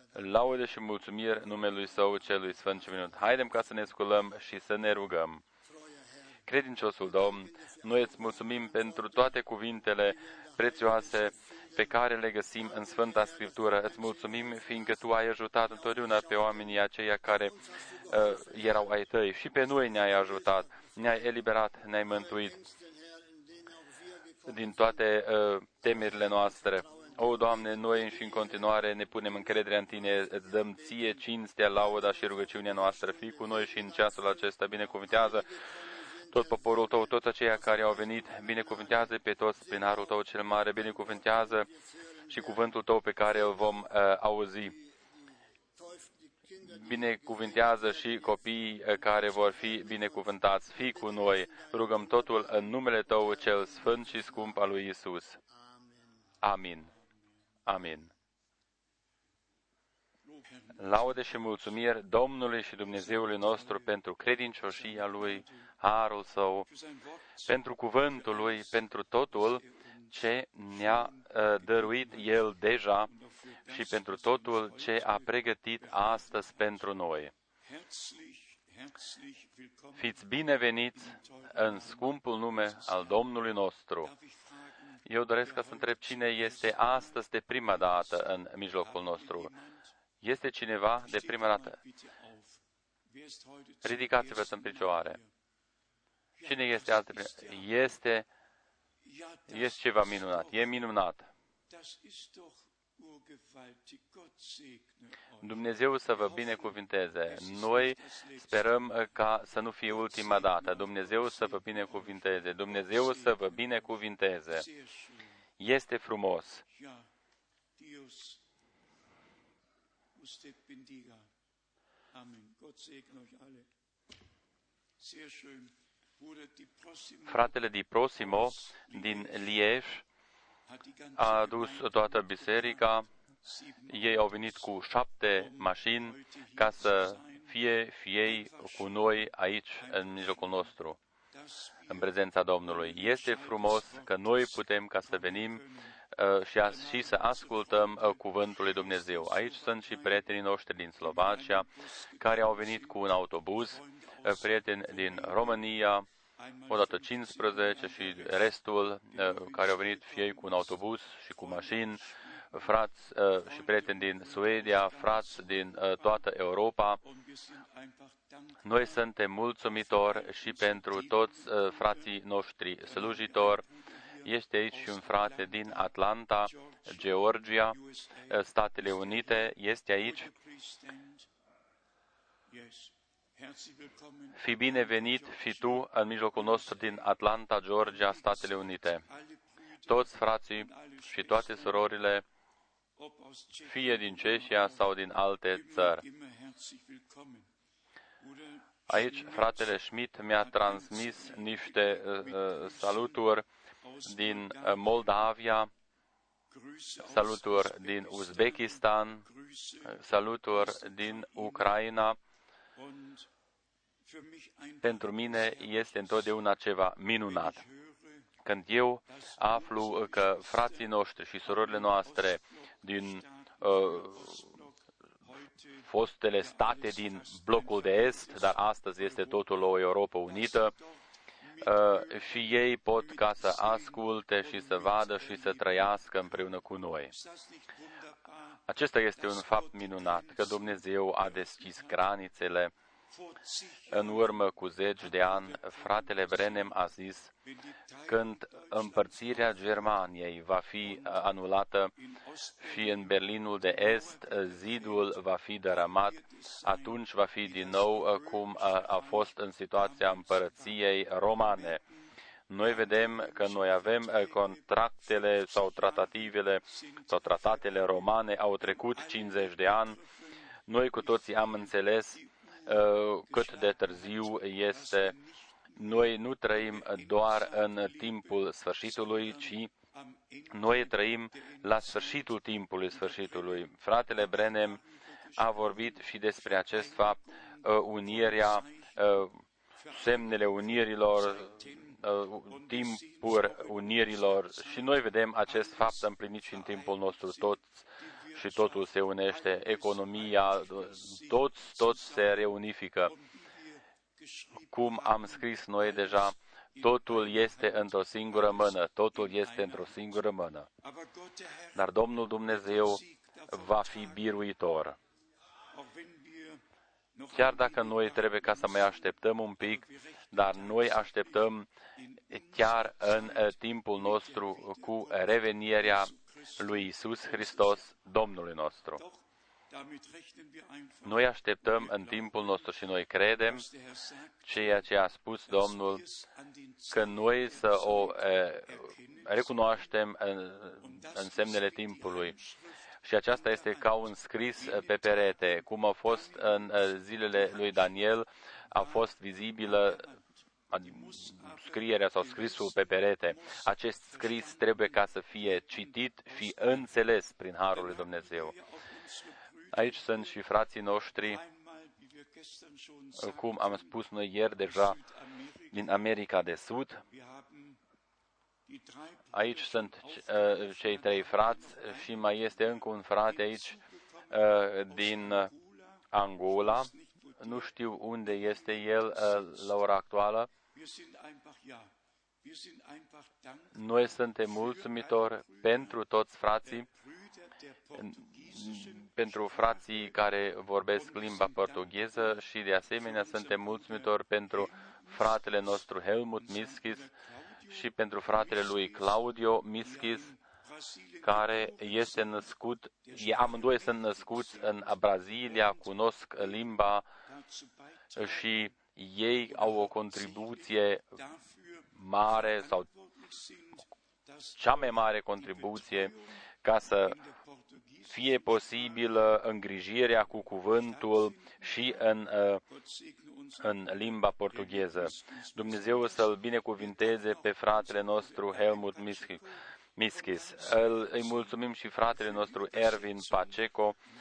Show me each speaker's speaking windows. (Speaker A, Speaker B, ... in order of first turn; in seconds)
Speaker A: 0.1-5.4, 6.5-22.6, 24.4-35.5, 36.3-41.7, 42.3-44.8, 46.6-55.4, 56.4-56.9, 57.6-58.1, 60.8-66.7, 67.4-73.1, 73.7-77.3, 80.0-84.1, 85.1-89.5, 90.2-91.8, 93.8-95.2, 96.4-98.2, 99.5-101.3, 105.4-114.7, 115.6-116.6, 127.3-130.0, 131.2-133.1, 133.9-141.0, 141.9-151.7, 152.2-156.1, 156.7-167.0, 168.6-173.6, 174.2-180.3, 184.4-189.0, 189.9-192.2, 193.6-196.0, 198.9-203.4, 204.0-205.7, 207.0-209.2, 209.8-212.2, 214.8-217.6, 218.4-224.5, 225.9-230.7, 231.6-237.1, 238.7-242.7, 243.9-247.3, 248.1-251.9, 252.6-261.8, 262.5-270.0, 270.7-275.1, 275.8-279.7, 280.5-284.8, 285.4-289.4, 289.9-303.1, 304.7-310.7, 311.8-315.0, 317.3-321.7, 322.3-329.0, 331.0-333.6, 334.4-336.1, 336.9-342.4, 343.0-350.1, 350.7-358.5, 359.7-361.4, 363.2-365.0, 365.7-367.0, 369.3-373.8, 374.3-375.5, 376.1-380.5, 383.8-386.9, 388.0-397.1, 397.7-400.3, 401.2-407.1, 408.1-411.1, 411.9-412.9, 414.6-417.2, 418.1-422.6, 423.6-429.4, 430.0-434.0
Speaker B: 22.6-24.3, 35.7-36.0, 45.8-46.6
Speaker C: 60.2-60.8, 63.1-63.9, 64.7-65.6, 66.7-67.3, 69.6-70.1, 70.9-72.5, 73.1-76.8, 77.6-80.2, 81.1-82.1, 84.1-87.2, 88.8-89.9, 91.0-95.2, 96.4-97.6, 99.0-100.7, 101.7-106.8, 107.3-108.7, 110.1-112.2, 112.8-113.9, 114.6-115.2, 116.7-117.1, 117.8-118.4, 120.1-121.3, 122.1-123.7, 125.0-127.5, 129.0-129.3, 130.7-134.6, 135.4-137.5, 138.3-138.9, 139.8-140.7, 141.3-144.1, 145.1-145.9, 146.7-150.3, 151.0-153.0, 153.7-155.6, 156.4-158.5, 159.1-160.7, 161.4-162.3, 163.4-166.1, 167.0-168.6, 170.0-172.0, 172.9-175.9, 176.5-177.0, 177.7-178.4, 179.0-179.4, 180.0-181.3, 182.5-185.6, 186.4-187.1, 187.9-188.4, 189.1-191.8, 193.0-194.9, 195.5-197.5, 198.2-199.6, 200.5-203.1, 203.8-204.8, 206.5-210.0, 212.8-213.3, 214.0-216.1, 217.3-218.2, 219.2-220.8, 221.4-225.9, 226.4-229.5, 230.2-232.2, 233.3-235.6, 237.1-238.6, 239.1-240.7, 241.5-241.9, 243.1-244.3, 245.0-246.7, 247.5-249.8, 252.0-255.0, 255.8-259.3, 259.9-260.6, 261.5-261.9, 262.7-264.5, 266.7-267.1, 268.8-270.4, 272.2-272.7, 273.3-278.4, 278.9-282.1, 283.1-283.4, 284.5-285.7, 286.7-288.9, 289.8-296.0, 296.6-297.5, 298.1-302.4, 303.1-305.4, 307.3-307.9, 309.2-309.9, 310.8-311.8, 312.9-314.2, 315.7-316.6, 317.1-319.0, 319.7-321.3, 322.0-322.3, 324.0-327.7, 329.0-331.2, 331.9-332.3, 333.6-334.8, 335.5-339.8, 340.8-342.8, 343.4-343.9, 349.7-350.2, 350.9-352.9, 353.4-354.9, 357.8-360.4, 361.3-363.9, 364.8-366.0, 367.1-367.8, 368.7-372.8, 373.3-376.0, 376.9-377.6, 380.7-381.9, 382.4-386.0, 386.8-390.0, 391.0-392.2, 393.1-394.0, 396.6-397.7, 399.8-402.1, 403.1-404.9, 407.3-408.5, 409.6-410.6, 411.1-416.3, 417.0-418.4, 421.0-422.0, 422.6-423.7, 425.7-426.1, 427.3-429.5, 430.2-431.0, 432.4-433.4